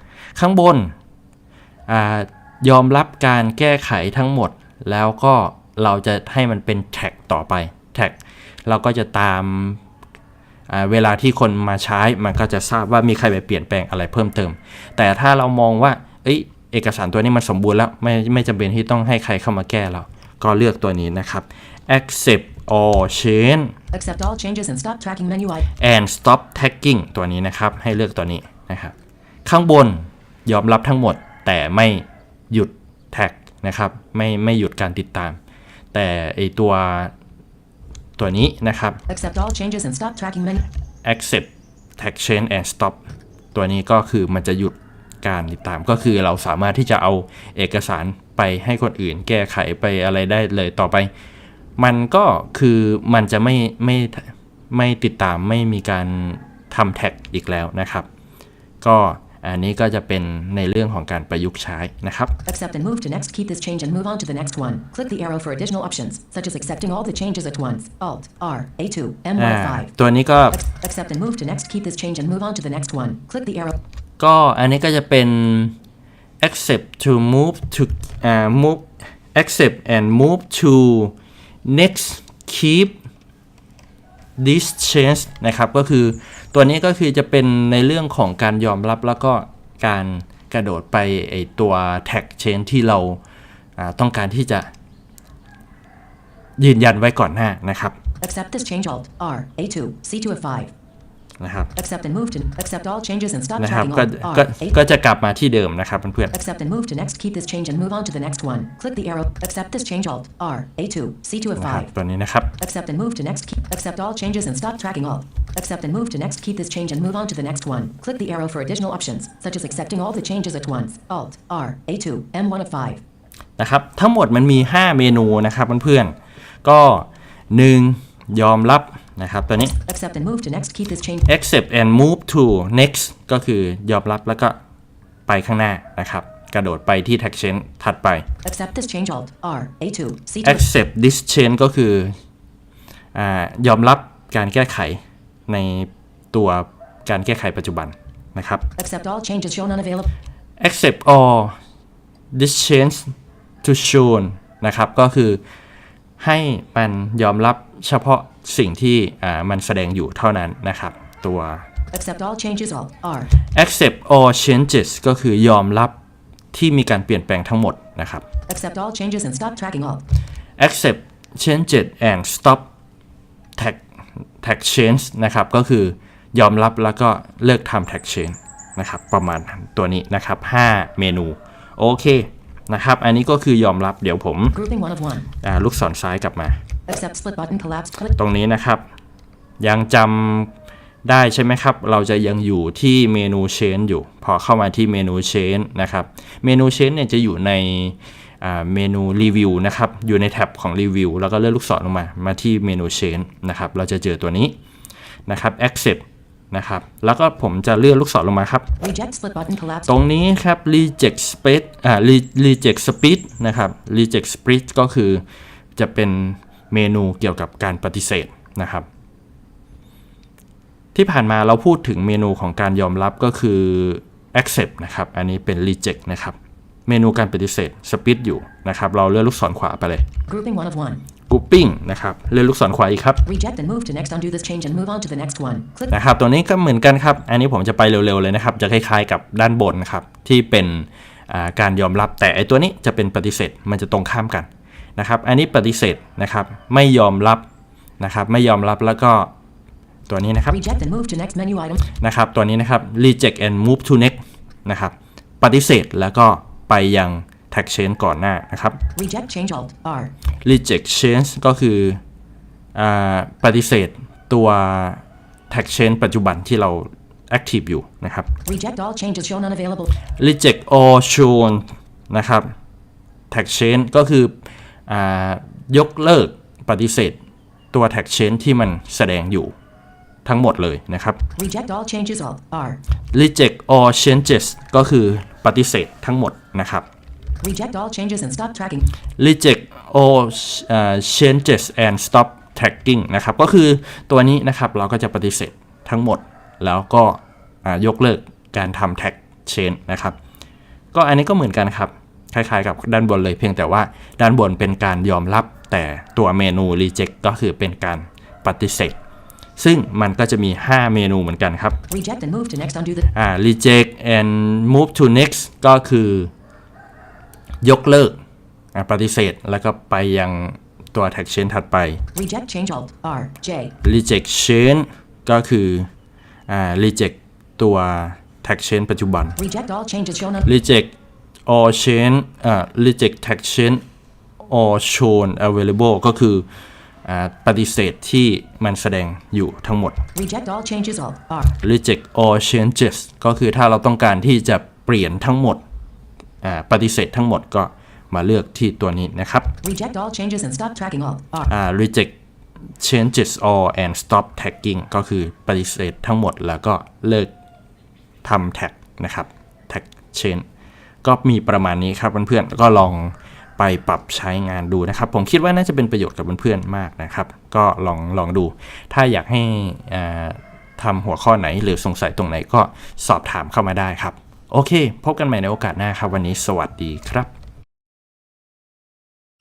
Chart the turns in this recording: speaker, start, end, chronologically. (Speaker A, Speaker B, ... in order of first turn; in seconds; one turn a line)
Speaker A: 0.4-0.9
Speaker A: 1.9-9.8
Speaker A: 10.7-23.7
Speaker B: 23.9-25.7
Speaker A: 25.8-28.9
Speaker A: 29.4-35.4
Speaker A: 35.9-37.1
Speaker A: 38.2-39.0
Speaker B: 39.1-40.6
Speaker A: 41.0-43.0
Speaker A: 43.5-51.1
Speaker A: 51.8-58.1
Speaker A: 58.8-62.3
Speaker B: 62.4-69.9
Speaker A: 69.4-70.6
Speaker B: 70.5-73.8
Speaker A: 74.2-75.8
Speaker A: 76.4-83.0
Speaker A: 84.4-93.2
Speaker A: 93.8-94.7
Speaker A: 96.6-98.0
Speaker B: 98.2-100.7
Speaker A: 101.4-101.7
Speaker B: 101.8-104.8
Speaker A: 103.6-106.3
Speaker B: 106.3-111.9
Speaker A: 111.6-112.5
Speaker B: 112.6-123.0
Speaker A: 123.6-129.8
Speaker B: 129.8-131.3
Speaker A: 131.3-134.6
Speaker A: 135.3-138.3
Speaker B: 138.4-140.7
Speaker A: 140.4-142.2
Speaker A: 143.1-148.6
Speaker B: 148.8-150.1
Speaker A: 150.6-151.6
Speaker A: 152.3-155.4
Speaker A: 156.2-161.7
Speaker B: 161.9-163.3
Speaker A: 163.5-166.0
Speaker A: 166.5-168.2
Speaker B: 168.5-170.0
Speaker A: 170.6-172.7
Speaker A: 174.4-184.6
Speaker B: 184.5-185.3
Speaker A: 185.4-186.6
Speaker B: 186.9-188.2
Speaker A: 188.1-188.8
Speaker A: 189.6-190.5
Speaker A: 191.0-204.6
Speaker A: 205.3-208.7
Speaker B: 208.8-209.9
Speaker A: 209.9-215.2
Speaker A: 215.8-218.9
Speaker A: 220.9-230.1
Speaker B: 230.3-231.0
Speaker A: 231.3-233.2
Speaker B: 233.2-235.9
Speaker A: 235.9-247.4
Speaker A: 248.0-249.3
Speaker A: 250.1-250.6
Speaker B: 250.5-251.8
Speaker A: 251.9-258.8
Speaker B: 258.9-260.1
Speaker A: 260.4-262.0
Speaker A: 262.8-268.3
Speaker B: 268.4-269.9
Speaker A: 270.1-272.5
Speaker A: 273.3-274.4
Speaker A: 274.9-277.2
Speaker A: 277.7-279.5
Speaker A: 280.2-281.2
Speaker B: 281.4-282.8
Speaker A: 283.1-286.9
Speaker B: 287.4-288.9
Speaker A: 289.2-300.2
Speaker A: 300.9-309.0
Speaker A: 309.6-311.8
Speaker B: 311.9-313.0
Speaker A: 313.1-316.3
Speaker A: 317.6-318.2
Speaker A: 318.7-322.0
Speaker B: 322.1-323.8
Speaker A: 323.8-325.9
Speaker A: 326.5-329.4
Speaker B: 329.4-330.5
Speaker A: 330.4-330.9
Speaker A: 331.5-333.8
Speaker A: 334.4-336.5
Speaker A: 337.1-340.0
Speaker B: 340.1-341.5
Speaker A: 341.6-345.6
Speaker A: 346.4-349.5
Speaker B: 349.6-351.5
Speaker A: 351.5-352.1
Speaker A: 352.8-357.3
Speaker A: 358.2-360.4
Speaker A: 361.0-377.3